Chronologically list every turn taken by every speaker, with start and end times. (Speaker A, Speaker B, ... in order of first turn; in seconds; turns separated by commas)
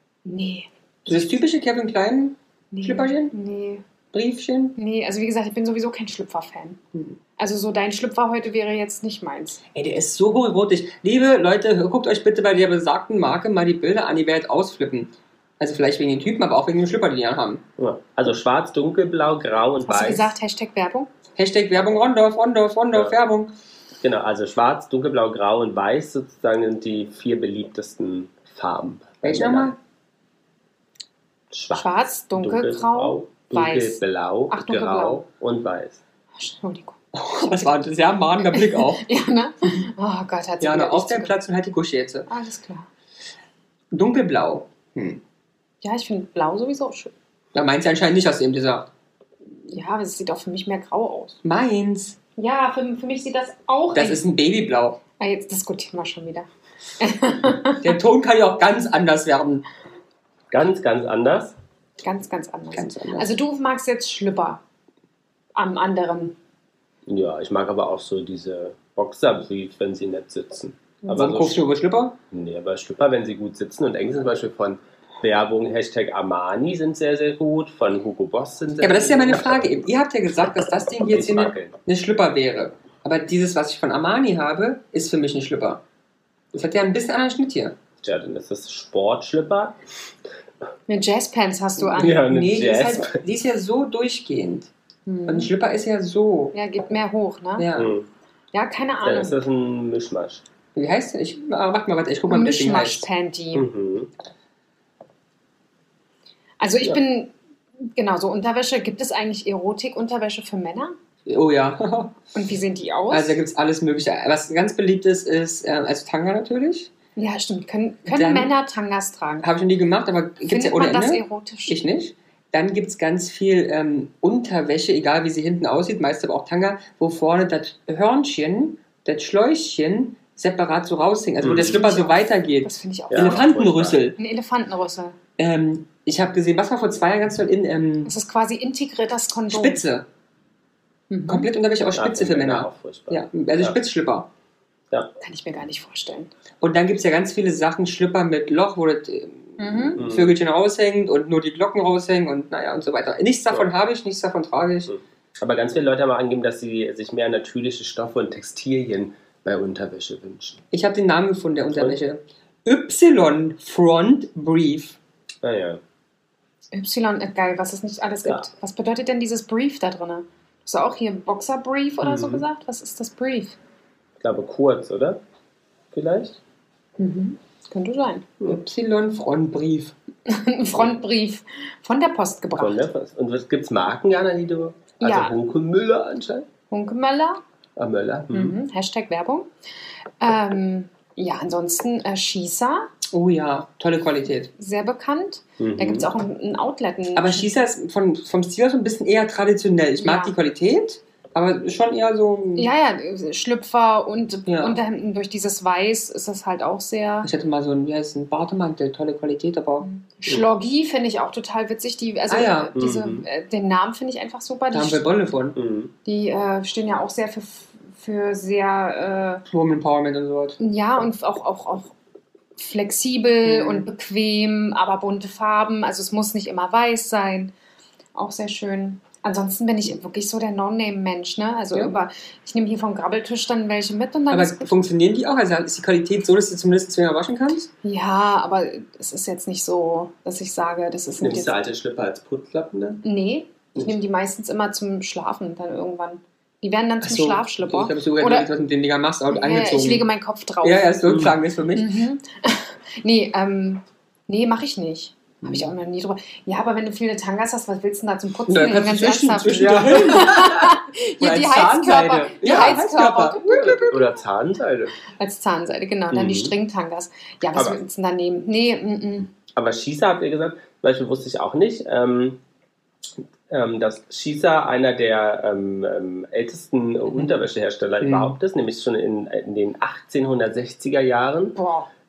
Speaker A: 0.2-1.3, Speaker B: 1.1-3.3, Speaker A: 2.7-3.8, Speaker B: 4.1-4.8, Speaker A: 4.8-6.8, Speaker A: 7.4-9.6, Speaker B: 9.7-17.6, Speaker C: 17.8-20.3, Speaker A: 19.8-21.1, Speaker B: 21.4-23.5, Speaker C: 24.0-29.7, Speaker B: 29.2-29.8, Speaker C: 31.5-36.0, Speaker A: 31.7-35.2, Speaker A: 36.4-37.0, Speaker B: 37.1-39.1, Speaker A: 38.5-41.3, Speaker B: 40.6-42.3, Speaker A: 42.3-42.9, Speaker B: 43.9-45.2, Speaker A: 45.8-47.1, Speaker B: 47.5-48.9, Speaker A: 49.7-51.4, Speaker B: 51.4-52.2, Speaker A: 52.4-54.2, Speaker B: 53.9-55.0, Speaker A: 55.2-56.5, Speaker A: 57.0-57.9, Speaker B: 57.8-59.6, Speaker C: 60.5-61.5, Speaker A: 62.0-64.6, Speaker B: 62.7-63.3, Speaker A: 65.5-66.3, Speaker C: 67.1-71.6, Speaker B: 71.1-72.2, Speaker C: 72.3-79.7, Speaker B: 78.8-85.8, Speaker C: 81.0-81.7, Speaker B: 86.5-87.8, Speaker C: 88.0-89.8, Speaker A: 90.9-92.2, Speaker C: 91.9-93.2, Speaker B: 92.1-94.7, Speaker A: 95.1-95.5, Speaker B: 95.3-96.5, Speaker A: 96.5-97.7, Speaker B: 97.6-97.9, Speaker C: 97.7-98.1, Speaker A: 98.5-99.4, Speaker C: 99.0-100.4, Speaker B: 100.7-103.0, Speaker A: 102.3-103.7, Speaker C: 103.5-104.1, Speaker A: 106.6-107.3, Speaker A: 107.9-110.9, Speaker B: 111.3-112.3, Speaker A: 112.3-113.4, Speaker B: 113.1-116.9, Speaker A: 117.2-119.5, Speaker B: 118.1-118.5, Speaker B: 119.4-134.2, Speaker A: 120.5-121.8, Speaker C: 131.4-131.8, Speaker A: 131.6-133.4, Speaker C: 133.1-134.0, Speaker A: 134.2-135.2, Speaker B: 135.4-138.1, Speaker A: 138.1-139.8, Speaker B: 139.5-140.1, Speaker A: 141.1-141.5, Speaker B: 141.3-144.3, Speaker C: 141.9-143.8, Speaker A: 145.2-146.3, Speaker B: 146.6-154.9, Speaker A: 149.6-150.0, Speaker C: 150.0-150.3, Speaker C: 154.9-160.6, Speaker B: 160.7-165.0, Speaker C: 161.7-162.0, Speaker C: 165.4-165.8, Speaker A: 166.7-173.6, Speaker C: 172.0-172.4, Speaker C: 174.2-175.2, Speaker C: 175.9-176.4, Speaker A: 177.0-178.3, Speaker B: 178.4-179.9, Speaker A: 180.2-182.8, Speaker C: 182.6-186.5, Speaker A: 185.0-185.3, Speaker A: 186.7-187.4, Speaker C: 187.8-188.6, Speaker A: 188.3-189.5, Speaker A: 190.2-192.9, Speaker B: 193.1-194.5, Speaker A: 194.5-197.5, Speaker C: 195.6-196.1, Speaker B: 197.2-202.7, Speaker A: 200.0-200.3, Speaker A: 202.6-207.3, Speaker B: 204.5-204.8, Speaker B: 207.2-209.9, Speaker A: 209.8-215.0, Speaker B: 212.3-212.7, Speaker C: 212.7-213.2, Speaker B: 214.7-215.6, Speaker C: 215.5-215.9, Speaker A: 216.0-219.4, Speaker B: 219.5-220.6, Speaker A: 220.6-221.9, Speaker A: 222.6-227.5, Speaker B: 223.4-223.8, Speaker A: 228.1-234.8, Speaker B: 234.3-237.7, Speaker A: 237.8-241.5, Speaker C: 241.2-243.0, Speaker A: 243.0-248.5, Speaker B: 247.0-250.1, Speaker A: 249.3-251.0, Speaker B: 250.6-252.0, Speaker C: 251.0-251.4, Speaker A: 251.7-263.8, Speaker B: 258.5-264.1, Speaker C: 259.5-260.5, Speaker C: 263.8-264.9, Speaker A: 265.2-269.3, Speaker C: 266.1-266.5, Speaker C: 267.5-267.8, Speaker C: 269.5-272.4, Speaker C: 273.5-281.6, Speaker B: 278.0-278.4, Speaker A: 281.6-281.9